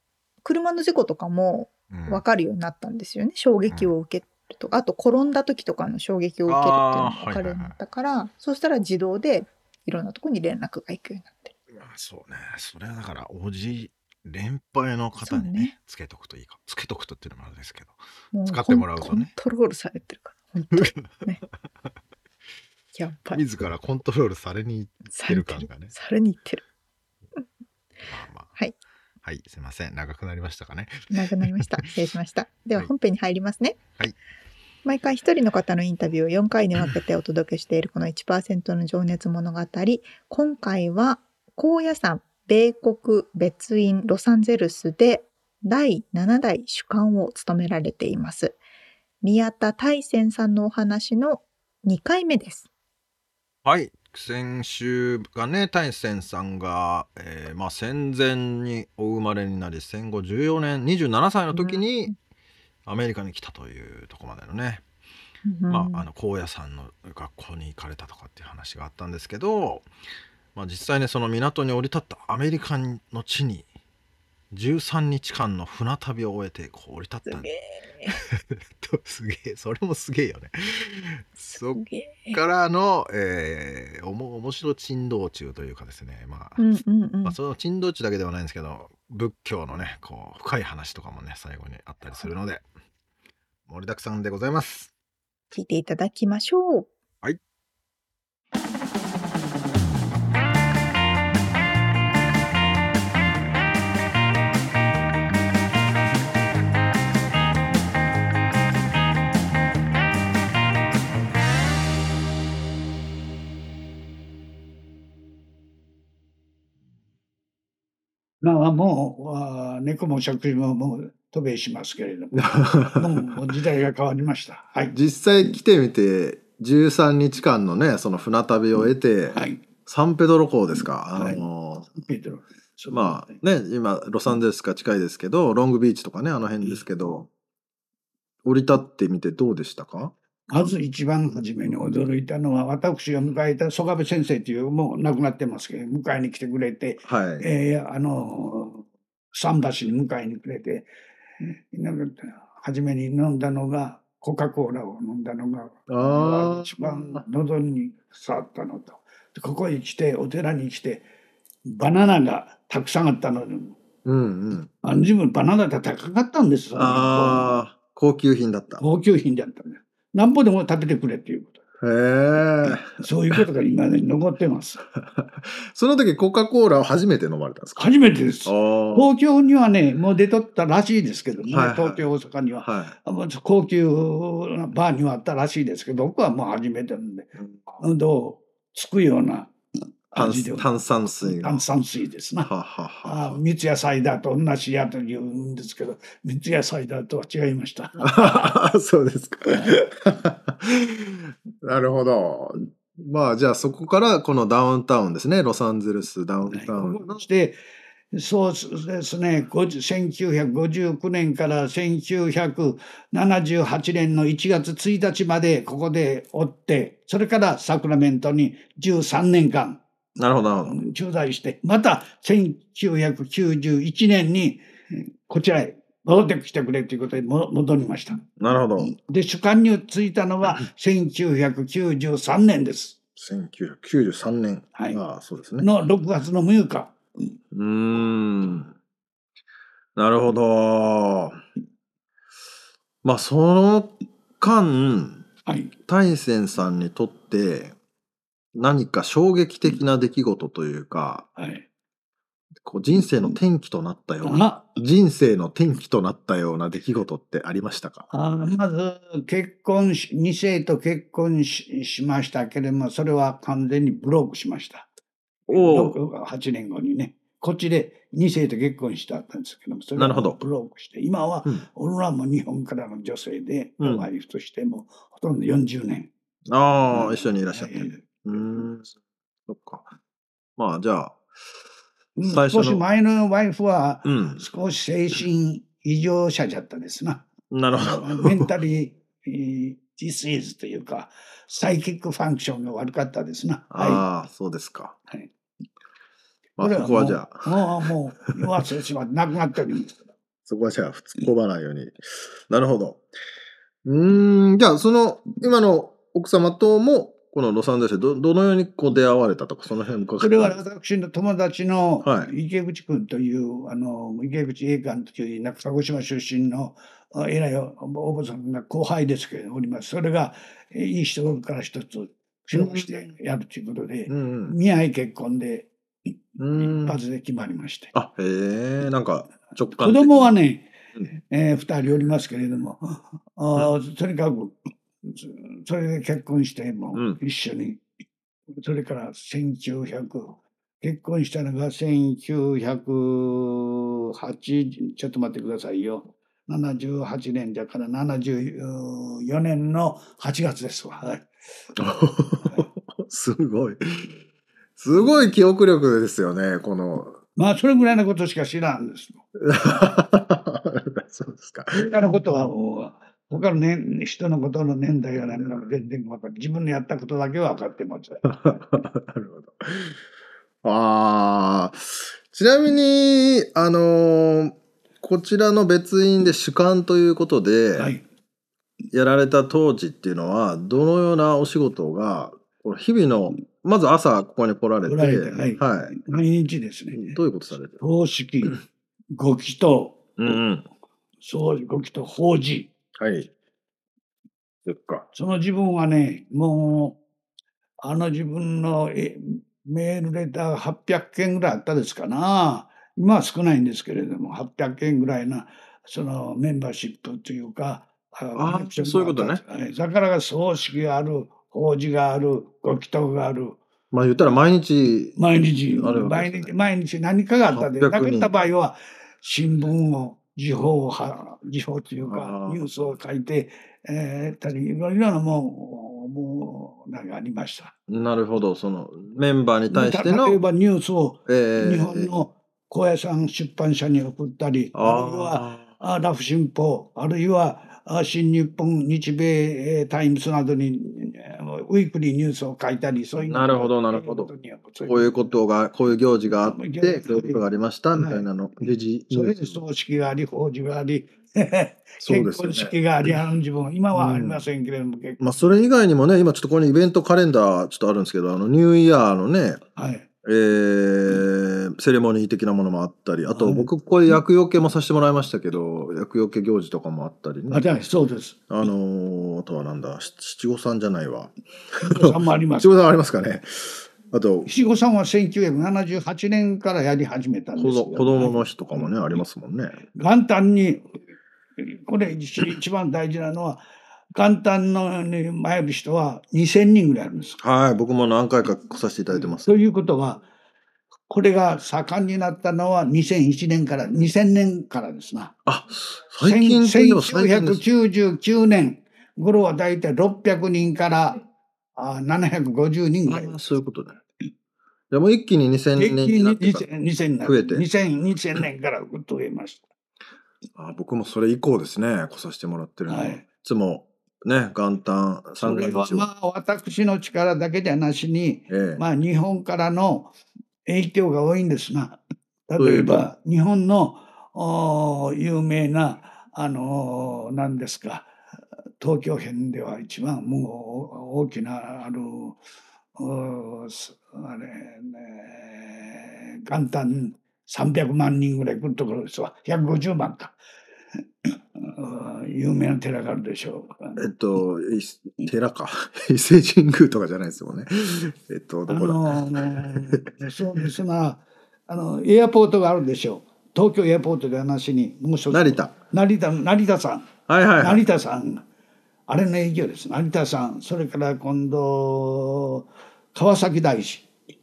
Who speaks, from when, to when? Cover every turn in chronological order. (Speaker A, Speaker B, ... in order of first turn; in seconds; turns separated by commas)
Speaker A: 0.4-11.5, Speaker B: 1.9-2.2, Speaker B: 6.5-7.8, Speaker B: 11.7-19.3, Speaker A: 15.2-15.7, Speaker A: 18.3-21.4, Speaker B: 20.7-21.2, Speaker A: 22.9-23.4, Speaker B: 23.3-25.9, Speaker A: 25.1-26.6, Speaker B: 28.1-28.5, Speaker B: 29.2-31.9, Speaker A: 31.1-33.8, Speaker A: 34.9-48.6, Speaker A: 49.2-52.7, Speaker B: 53.6-62.1, Speaker A: 61.5-62.1, Speaker B: 62.9-64.8, Speaker A: 65.5-66.1, Speaker B: 65.7-69.9, Speaker B: 70.5-73.7, Speaker B: 74.5-77.5, Speaker A: 77.3-78.2, Speaker B: 78.1-86.6, Speaker A: 81.6-82.4, Speaker A: 86.6-87.4, Speaker B: 87.2-92.7, Speaker B: 93.7-94.9, Speaker A: 95.5-96.9, Speaker C: 118.4-125.0, Speaker B: 122.4-123.0, Speaker B: 124.9-131.9, Speaker C: 129.3-129.6, Speaker C: 131.2-131.4, Speaker C: 131.9-133.4, Speaker B: 132.9-137.3, Speaker B: 138.4-140.1, Speaker C: 140.5-150.9, Speaker B: 147.1-147.5, Speaker C: 151.4-161.1, Speaker B: 155.9-157.2, Speaker C: 161.7-163.8, Speaker B: 164.1-164.7, Speaker C: 164.8-167.6, Speaker B: 166.8-168.8, Speaker C: 168.8-171.6, Speaker B: 171.8-173.4, Speaker C: 172.9-174.8, Speaker B: 175.0-177.9, Speaker C: 177.8-189.5, Speaker B: 178.4-179.1, Speaker B: 181.5-182.0, Speaker B: 182.6-182.9, Speaker B: 187.4-187.8, Speaker C: 190.1-192.5, Speaker B: 190.1-191.6, Speaker B: 192.4-193.4, Speaker C: 193.1-198.1, Speaker B: 198.0-207.2, Speaker C: 206.5-207.6, Speaker C: 208.1-219.8, Speaker B: 220.2-220.8, Speaker C: 220.7-228.2, Speaker B: 228.4-228.9, Speaker C: 228.8-233.0, Speaker B: 233.2-235.7, Speaker C: 234.8-235.0, Speaker C: 235.6-237.0, Speaker B: 237.5-238.7, Speaker B: 240.0-241.4, Speaker B: 243.0-245.3, Speaker C: 245.5-245.7, Speaker B: 245.9-247.8, Speaker B: 248.6-251.3, Speaker C: 251.4-251.7, Speaker B: 252.7-258.1, Speaker C: 254.2-254.8, Speaker C: 258.1-264.9, Speaker B: 265.5-266.0, Speaker C: 265.5-276.1, Speaker B: 270.0-270.4, Speaker B: 273.8-274.1, Speaker B: 276.5-278.9, Speaker C: 276.9-278.4, Speaker B: 279.5-279.9, Speaker B: 280.6-281.2, Speaker C: 282.2-294.1, Speaker B: 282.2-282.8, Speaker B: 284.1-284.4, Speaker B: 287.5-288.5, Speaker B: 293.7-295.0, Speaker B: 296.6-297.4, Speaker C: 296.6-299.9, Speaker B: 300.5-303.0, Speaker B: 303.9-310.6, Speaker C: 310.2-325.7, Speaker B: 312.0-312.3, Speaker B: 322.5-323.1, Speaker B: 324.1-324.6, Speaker C: 326.4-327.9, Speaker B: 326.4-327.0, Speaker B: 327.9-330.3, Speaker C: 329.8-337.8, Speaker B: 336.9-337.2, Speaker C: 338.6-351.3, Speaker B: 351.8-354.2, Speaker B: 354.8-357.2, Speaker C: 357.4-359.2, Speaker B: 359.4-361.9, Speaker C: 361.7-368.6, Speaker B: 368.3-370.0, Speaker B: 370.6-377.9, Speaker C: 377.8-378.0, Speaker B: 378.9-386.0, Speaker C: 384.9-387.2, Speaker B: 386.9-387.8, Speaker C: 387.8-388.6, Speaker C: 389.1-390.0, Speaker B: 390.2-390.7, Speaker C: 391.2-392.7, Speaker B: 393.0-393.3, Speaker B: 394.7-395.1, Speaker C: 395.1-397.0, Speaker C: 397.8-413.6, Speaker B: 408.4-409.4, Speaker B: 413.9-415.2, Speaker C: 415.2-427.8, Speaker B: 415.8-416.5, Speaker B: 417.5-418.3, Speaker B: 422.0-422.6, Speaker B: 427.9-430.4, Speaker C: 429.7-445.3, Speaker B: 431.3-432.1, Speaker B: 434.7-435.7, Speaker B: 443.3-444.3, Speaker B: 444.9-449.6, Speaker C: 446.4-448.3, Speaker C: 449.1-455.2, Speaker B: 452.0-453.2, Speaker B: 453.9-454.4, Speaker B: 455.2-459.6, Speaker C: 459.8-460.1, Speaker B: 460.2-467.9, Speaker C: 463.3-464.1, Speaker C: 467.5-468.5, Speaker B: 468.5-474.5, Speaker C: 471.8-472.7, Speaker C: 474.5-478.9, Speaker B: 477.6-479.8, Speaker C: 479.9-480.8, Speaker C: 481.6-483.6, Speaker C: 484.1-487.4, Speaker B: 487.4-489.4, Speaker C: 489.4-490.2, Speaker C: 491.1-495.4, Speaker B: 495.5-497.6, Speaker C: 496.2-501.2, Speaker C: 501.8-503.4, Speaker B: 503.1-504.0, Speaker B: 504.9-506.7, Speaker C: 505.8-509.6, Speaker B: 507.2-507.6, Speaker B: 510.6-516.1, Speaker C: 512.9-513.2, Speaker C: 515.4-520.1, Speaker B: 518.5-518.8, Speaker C: 520.7-528.1, Speaker B: 522.6-522.9, Speaker C: 528.8-532.4, Speaker C: 533.0-540.4, Speaker C: 541.2-544.0, Speaker B: 544.0-550.1, Speaker C: 548.7-558.4, Speaker B: 555.3-555.8, Speaker B: 557.3-557.9, Speaker C: 559.1-564.1